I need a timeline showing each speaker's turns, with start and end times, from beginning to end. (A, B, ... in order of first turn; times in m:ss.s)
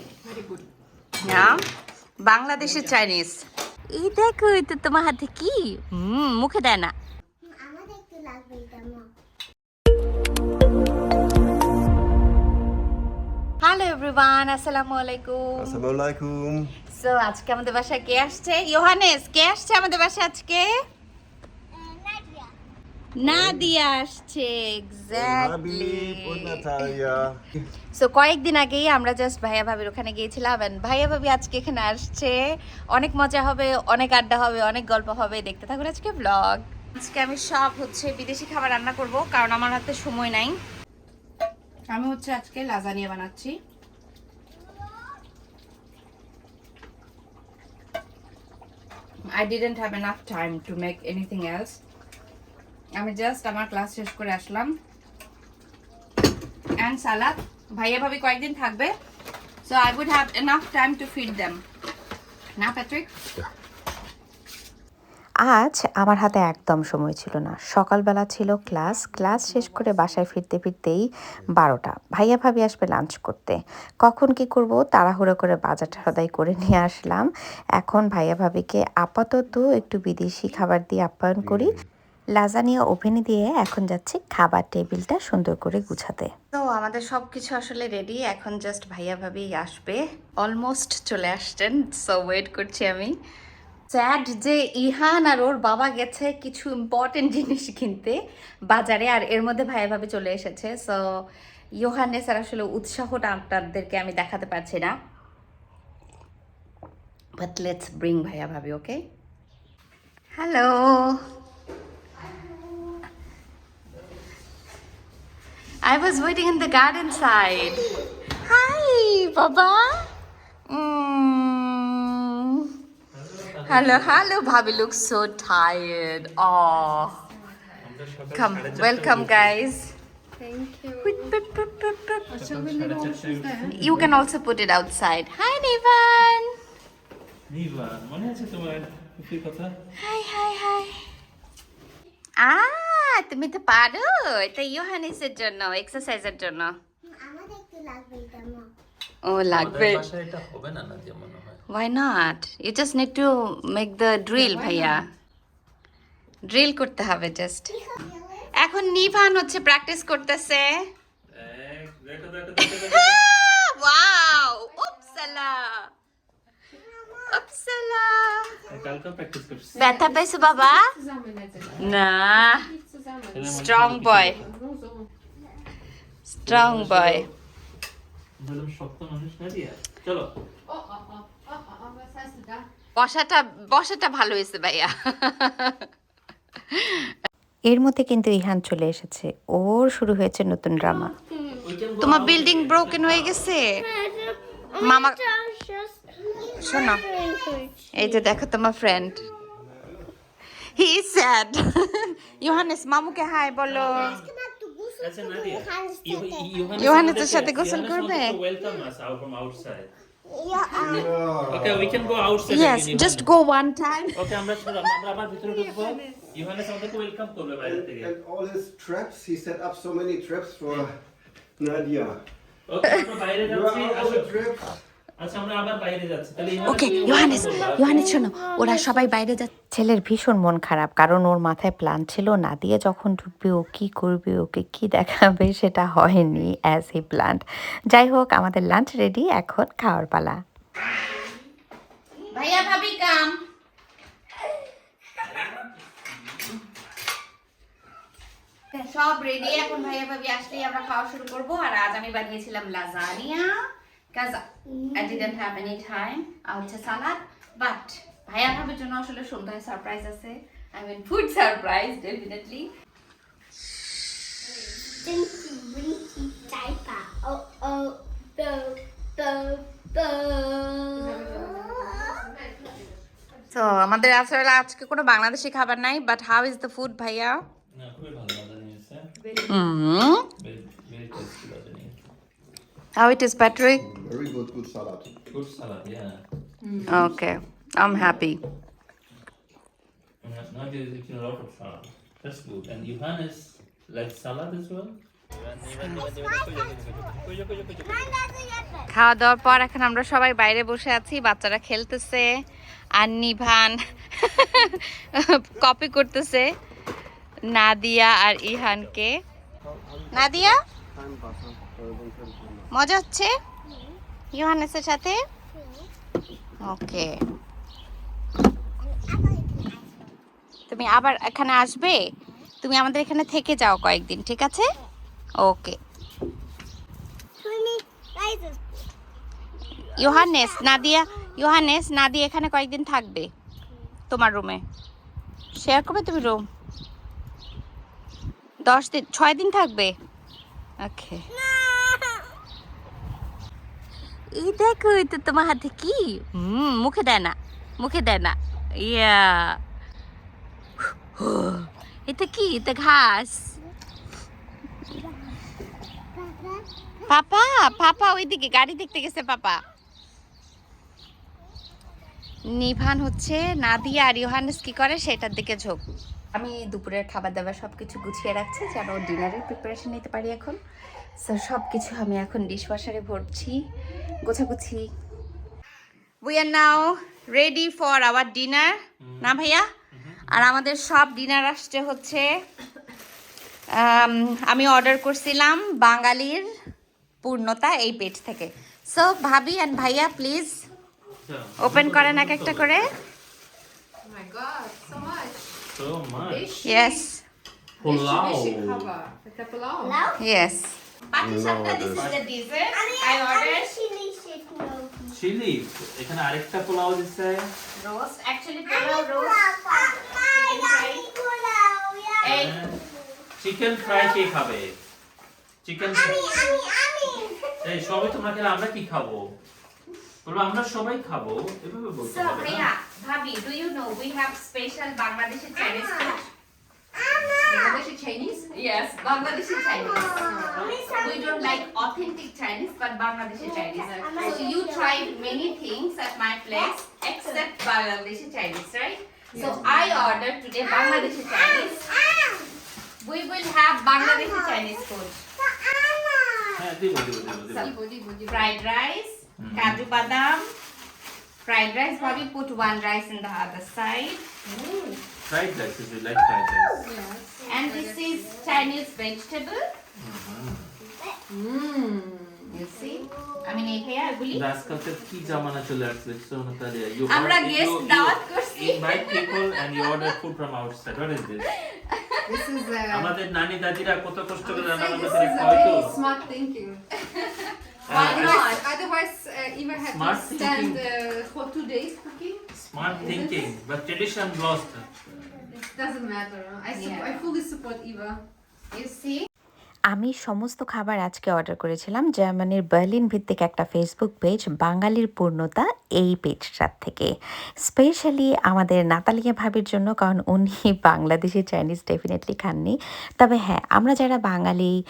0:00.2-0:00.6 A
0:01.2-0:01.6 B
0:01.2-0:01.6 C
0:02.3-0:03.4 C
0:03.9-0:06.9 C
0:07.4-0:09.1 D
0:13.6-0:15.8 C
0:15.6-0:16.7 E
0:16.9-0:20.7 C
0:21.7-0:22.5 D
0:23.2-0:27.0 C
0:23.2-0:23.7 E
0:25.1-0:27.4 E
0:28.0-0:32.4 C
0:32.9-0:40.6 C
0:41.9-0:43.5 C
0:49.3-0:51.8 C
0:53.0-0:54.7 C
0:56.8-0:58.9 C
0:59.6-1:01.6 C
1:02.6-1:03.1 C
1:05.4-1:17.3 F
1:08.7-1:10.2 A
1:17.8-1:21.7 F
1:21.4-1:21.8 E
1:22.4-1:26.3 F
1:26.5-1:33.1 C
1:33.9-1:38.1 C
1:38.7-1:41.0 C
1:41.8-1:44.9 C
1:47.4-1:49.0 C
1:50.4-1:51.2 C
1:55.8-2:00.1 C
2:00.7-2:02.7 C
2:03.1-2:04.3 B
2:03.7-2:07.2 C
2:07.8-2:09.6 B
2:08.3-2:09.9 C
2:10.4-2:11.4 A
2:11.0-2:12.3 C
2:12.3-2:14.1 B
2:12.3-2:13.8 A
2:13.7-2:16.5 C
2:17.5-2:19.7 B
2:20.0-2:21.0 C
2:22.4-2:26.7 C
2:27.0-2:28.7 D
2:29.2-2:30.0 C
2:29.5-2:31.6 B
2:31.7-2:35.0 C
2:34.3-2:35.1 A
2:36.5-2:37.7 C
2:37.7-2:38.5 D
2:38.6-2:40.7 C
2:41.3-2:43.2 B
2:42.6-2:45.9 C
2:44.8-2:45.2 A
2:46.8-2:47.4 D
2:47.3-2:48.6 C
2:48.7-2:49.9 B
2:49.7-2:53.6 A
2:49.8-2:50.8 C
2:51.6-2:51.9 B
2:51.8-2:52.6 C
2:53.3-2:54.5 B
2:53.5-2:54.4 C
2:54.2-2:55.1 A
2:56.3-2:57.2 C
2:56.4-2:57.3 B
2:58.4-3:00.3 B
3:00.7-3:02.6 A
3:03.0-3:05.8 C
3:06.7-3:07.1 C
3:07.7-3:11.1 F
3:10.9-3:11.6 D
3:11.6-3:13.4 B
3:12.0-3:13.8 C
3:13.7-3:18.3 D
3:14.8-3:15.2 C
3:16.5-3:17.0 C
3:17.9-3:19.2 C
3:19.5-3:20.1 E
3:20.7-3:24.2 C
3:22.3-3:22.7 E
3:23.6-3:24.3 B
3:23.6-3:27.4 D
3:25.0-3:29.9 B
3:26.8-3:28.4 C
3:30.2-3:31.1 D
3:30.6-3:31.0 C
3:30.7-3:32.3 E
3:31.5-3:33.3 B
3:32.5-3:34.2 C
3:34.1-3:38.1 B
3:37.6-3:40.9 E
3:41.6-3:42.2 E
3:42.7-3:44.4 B
3:43.4-3:44.7 E
3:45.2-3:48.1 B
3:46.6-3:49.5 C
3:46.8-3:49.1 D
3:49.7-4:00.4 F
4:02.3-4:03.3 C
4:05.2-4:06.4 B
4:08.7-4:13.6 C
4:14.1-4:14.4 C
4:14.7-4:15.3 D
4:14.9-4:22.7 C
4:25.0-4:32.3 D
4:30.9-4:33.4 A
4:33.5-4:37.4 C
4:37.7-4:39.0 B
4:39.2-4:39.6 A
4:39.5-4:40.2 C
4:40.4-4:41.9 B
4:43.0-4:43.8 C
4:43.8-4:45.1 E
4:45.3-4:46.2 B
4:46.6-4:47.0 A
4:46.8-4:47.2 B
4:46.9-4:48.4 C
4:50.2-4:58.2 B
4:56.2-4:56.5 D
4:57.8-4:58.9 D
4:58.9-5:02.3 C
5:03.0-5:06.5 C
5:07.5-5:09.1 C
5:09.6-5:12.7 E
5:10.1-5:10.6 C
5:12.7-5:13.3 C
5:13.6-5:14.0 D
5:14.3-5:15.2 C
5:15.5-5:15.9 D
5:16.6-5:17.1 C
5:18.8-5:20.2 D
5:20.7-5:22.0 C
5:22.6-5:24.7 C
5:25.4-5:25.8 C
5:27.4-5:28.8 D
5:29.9-5:33.3 C
5:30.0-5:31.3 D
5:34.1-5:34.6 C
5:35.6-5:36.4 C
5:38.6-5:39.9 C
5:40.8-5:41.2 C
5:41.3-5:42.3 D
5:44.4-5:49.6 C
5:51.2-5:53.5 C
5:56.1-5:57.0 D
5:57.1-5:59.6 C
5:57.6-5:57.9 D
6:02.6-6:05.8 C
6:06.3-6:10.6 C
6:11.2-6:13.5 C
6:14.2-6:14.8 C
6:16.2-6:19.6 C
6:19.0-6:19.3 B
6:19.9-6:20.4 B
6:20.3-6:22.3 C
6:23.8-6:26.5 C
6:27.2-6:30.6 C
6:31.2-6:32.8 B
6:31.6-6:32.9 C
6:34.0-6:35.6 A
6:35.7-6:36.5 B
6:36.1-6:37.0 A
6:36.6-6:37.2 C
6:37.8-6:38.9 B
6:37.8-6:40.1 A
6:39.8-6:40.2 D
6:40.2-6:43.7 C
6:41.2-6:42.1 E
6:42.7-6:45.1 D
6:45.1-6:47.5 B
6:47.8-6:49.5 C
6:48.6-6:53.2 D
6:50.3-6:51.0 C
6:52.2-6:52.6 C
6:52.2-6:52.8 B
6:53.4-6:54.7 B
6:55.6-6:56.6 B
6:55.8-6:58.0 D
6:57.6-6:59.2 B
7:00.2-7:02.7 B
7:02.0-7:06.3 C
7:05.6-7:06.2 D
7:07.0-7:07.8 D
7:07.4-7:08.5 A
7:08.5-7:10.2 C
7:09.7-7:11.2 A
7:09.7-7:11.8 D
7:11.0-7:21.8 C
7:13.4-7:15.6 D
7:13.7-7:14.3 A
7:19.3-7:19.6 A
7:19.4-7:20.2 B
7:20.6-7:22.5 D
7:23.0-7:25.2 C
7:24.0-7:24.8 D
7:25.4-7:26.7 D
7:26.5-7:27.7 B
7:27.5-7:28.6 A
7:28.3-7:30.4 C
7:29.4-7:29.9 B
7:31.4-7:34.2 C
7:34.4-7:35.0 A
7:35.2-7:36.9 B
7:36.8-7:38.1 A
7:37.5-7:39.6 C
7:39.9-7:40.7 B
7:41.3-7:42.6 A
7:42.5-7:44.4 C
7:42.8-7:43.8 D
7:44.3-7:51.5 B
7:47.1-7:50.0 C
7:51.6-7:52.4 C
7:52.2-7:53.1 A
7:52.9-7:55.9 B
7:54.4-7:56.8 A
7:55.6-7:56.2 D
7:57.0-7:58.5 C
7:57.8-7:58.6 B
7:57.9-8:03.6 A
7:59.8-8:00.8 B
8:02.5-8:04.9 B
8:05.5-8:08.2 A
8:06.7-8:07.3 C
8:08.7-8:09.2 C
8:09.9-8:17.1 F
8:17.6-8:24.7 F